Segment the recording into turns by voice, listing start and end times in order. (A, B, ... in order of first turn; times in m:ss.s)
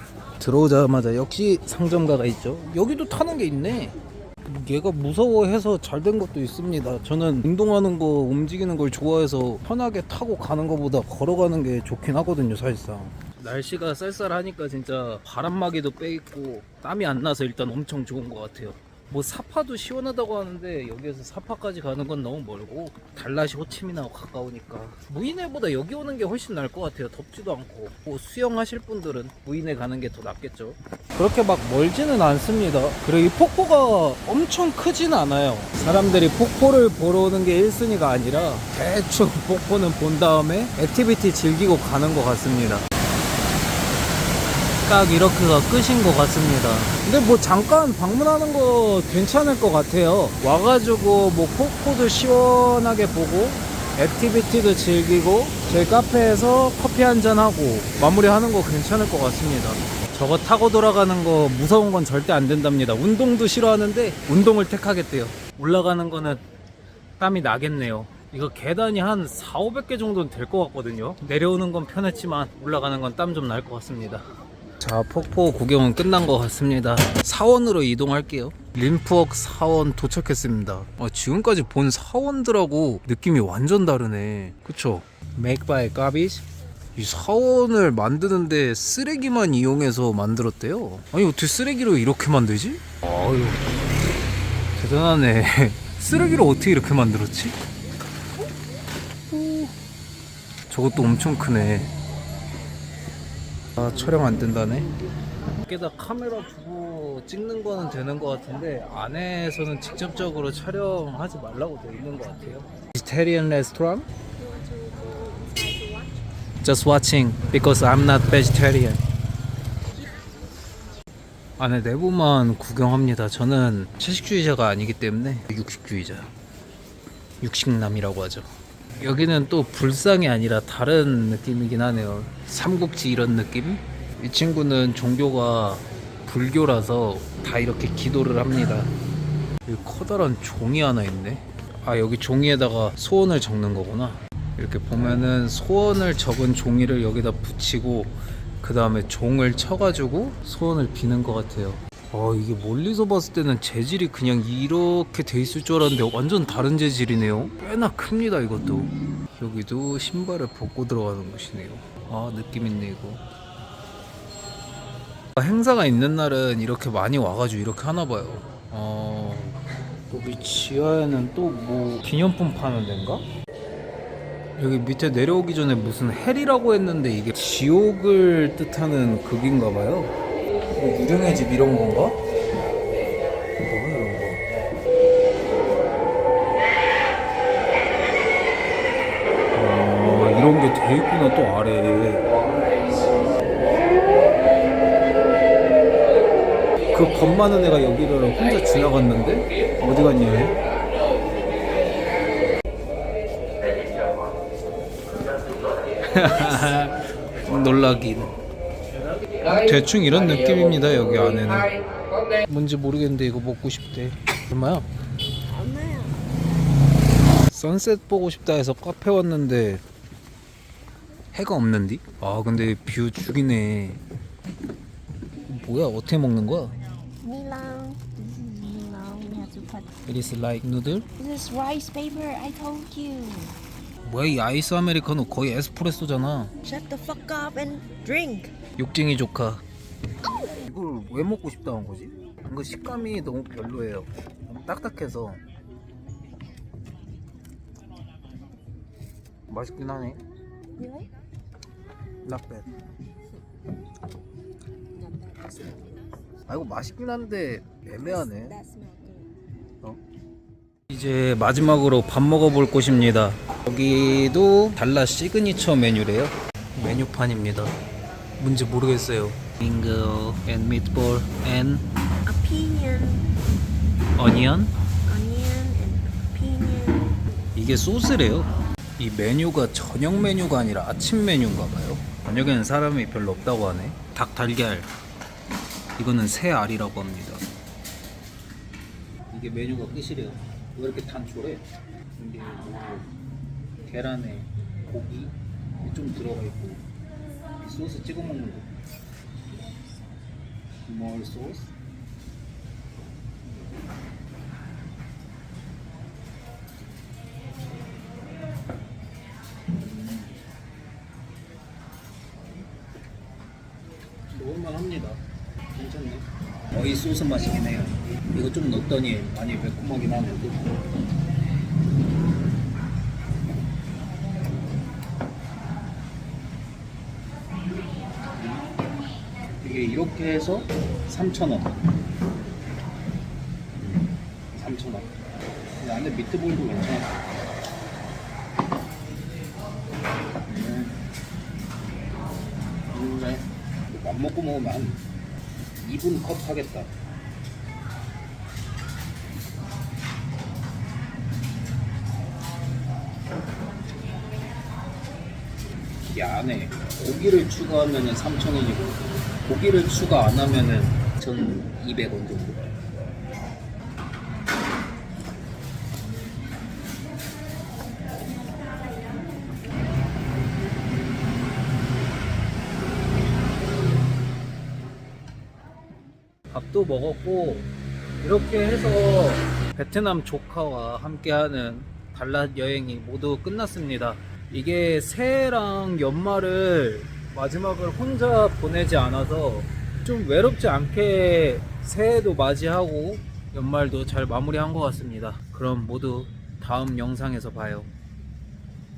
0:00.4-0:42.8 A
0:44.8-1:06.4 A
1:07.2-1:14.2 A
1:14.8-1:26.4 A
1:27.0-1:33.6 A
1:34.8-1:37.6 A
1:39.3-1:39.7 A
1:40.7-1:41.9 A
1:43.8-1:44.9 A
1:45.6-1:54.1 A
1:54.4-1:56.2 B
1:56.6-1:59.0 A
2:01.6-2:06.3 A
2:07.4-2:18.9 A
2:19.6-2:43.2 A
2:45.4-2:53.2 A
2:54.6-3:00.1 A
3:00.7-3:02.2 A
3:03.6-3:04.4 A
3:09.5-3:12.3 A
3:16.9-3:20.6 A
3:26.1-3:28.3 A
3:29.6-3:31.7 A
3:32.4-3:34.9 A
3:35.5-3:36.3 B
3:37.5-3:39.8 A
3:41.3-3:44.0 A
3:45.5-3:46.7 A
3:47.2-3:49.9 B
3:50.0-3:51.1 A
3:51.2-3:53.6 B
3:54.0-3:56.5 A
3:56.6-3:58.5 B
3:58.8-3:59.6 A
4:00.6-4:05.4 A
4:09.5-4:10.2 A
4:12.2-4:12.6 A
4:15.0-4:16.1 B
4:16.5-4:18.6 A
4:18.2-4:19.3 B
4:20.9-4:27.7 A
4:28.4-4:31.8 A
4:32.2-4:33.3 B
4:34.2-4:34.7 A
4:35.0-4:37.2 B
4:37.5-4:44.9 A
4:46.0-4:47.4 A
4:49.3-4:51.6 A
4:52.2-4:53.1 A
4:53.8-4:56.8 A
4:57.6-4:58.7 A
5:00.9-5:01.7 A
5:09.7-5:10.3 A
5:14.3-5:15.2 A
5:15.7-5:20.8 A
5:29.6-5:31.8 A
5:33.7-5:35.1 A
5:35.8-5:37.2 A
5:40.4-5:41.0 A
5:42.9-5:45.0 A
5:45.8-5:46.9 A
5:56.1-6:02.7 A
6:16.5-6:17.7 A
6:18.2-6:37.9 A